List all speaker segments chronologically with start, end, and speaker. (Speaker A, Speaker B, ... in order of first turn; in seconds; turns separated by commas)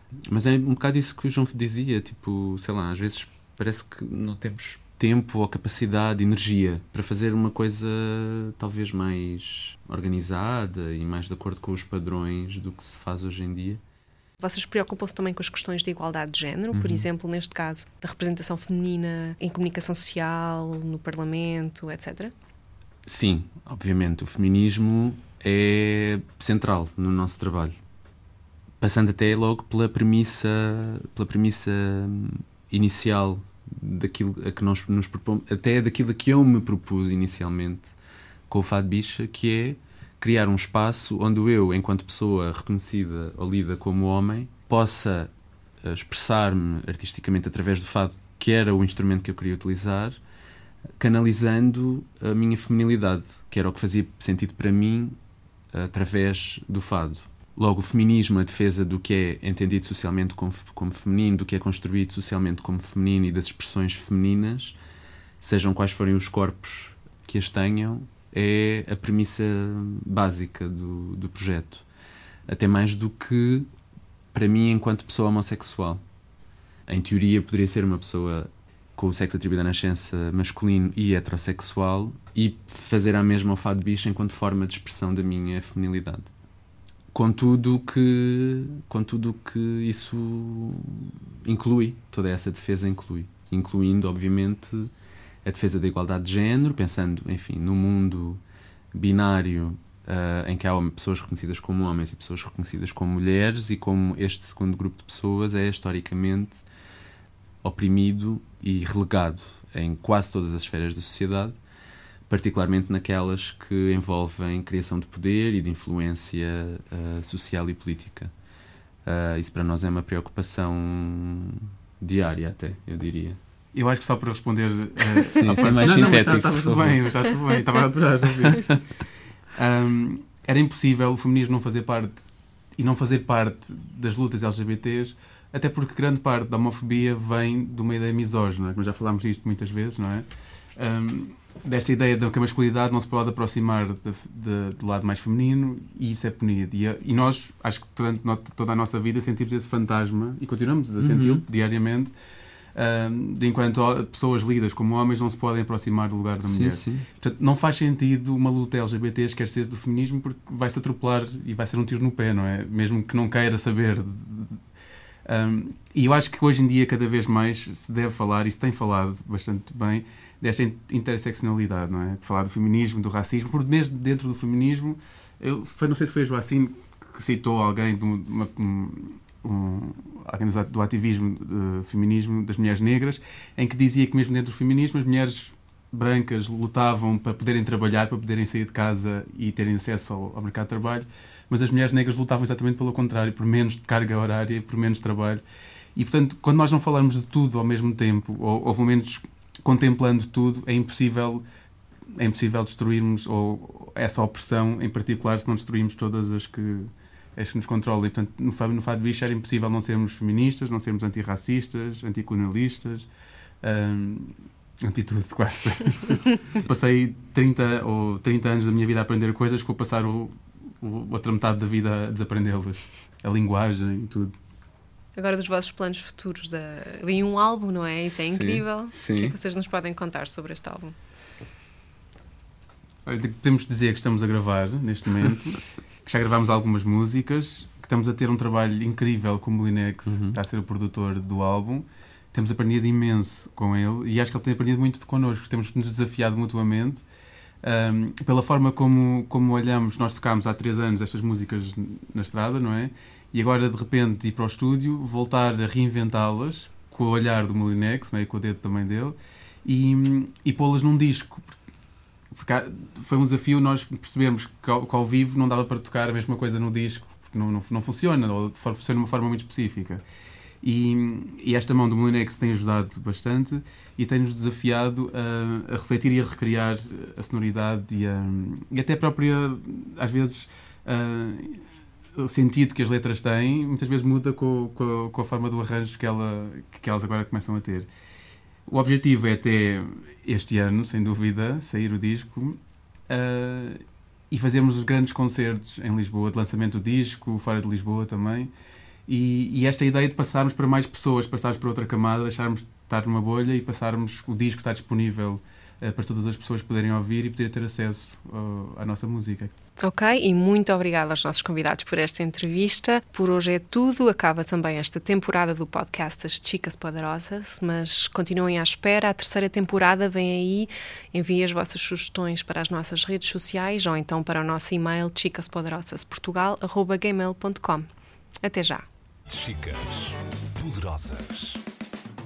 Speaker A: 0.3-13.8, Speaker B: 14.4-22.3, Speaker A: 16.7-17.1, Speaker A: 23.1-27.8, Speaker A: 28.8-37.9, Speaker A: 38.5-45.3, Speaker A: 45.8-50.2, Speaker A: 51.0-55.2, Speaker A: 55.7-64.8, Speaker A: 65.4-71.9, Speaker A: 72.5-73.7, Speaker A: 74.3-76.0, Speaker A: 76.9-86.3, Speaker A: 87.1-94.9, Speaker A: 95.4-98.4, Speaker A: 98.9-106.6, Speaker A: 107.6-111.6, Speaker A: 112.3-118.3, Speaker A: 119.0-123.4, Speaker C: 123.7-128.8, Speaker A: 125.3-127.0, Speaker C: 129.5-140.2, Speaker C: 140.8-152.1, Speaker A: 151.0-151.4, Speaker C: 152.8-164.6, Speaker A: 156.4-157.1, Speaker C: 165.2-195.4, Speaker C: 196.0-201.4, Speaker C: 202.1-213.1, Speaker C: 213.6-224.3, Speaker B: 225.1-230.9, Speaker A: 228.0-229.3, Speaker C: 233.1-247.0, Speaker A: 240.1-240.4, Speaker C: 247.6-261.5, Speaker C: 262.3-270.0, Speaker C: 270.6-281.6, Speaker C: 282.1-287.9, Speaker C: 288.7-298.5, Speaker C: 299.1-309.5, Speaker B: 309.8-327.9, Speaker B: 328.4-328.9, Speaker A: 329.3-331.6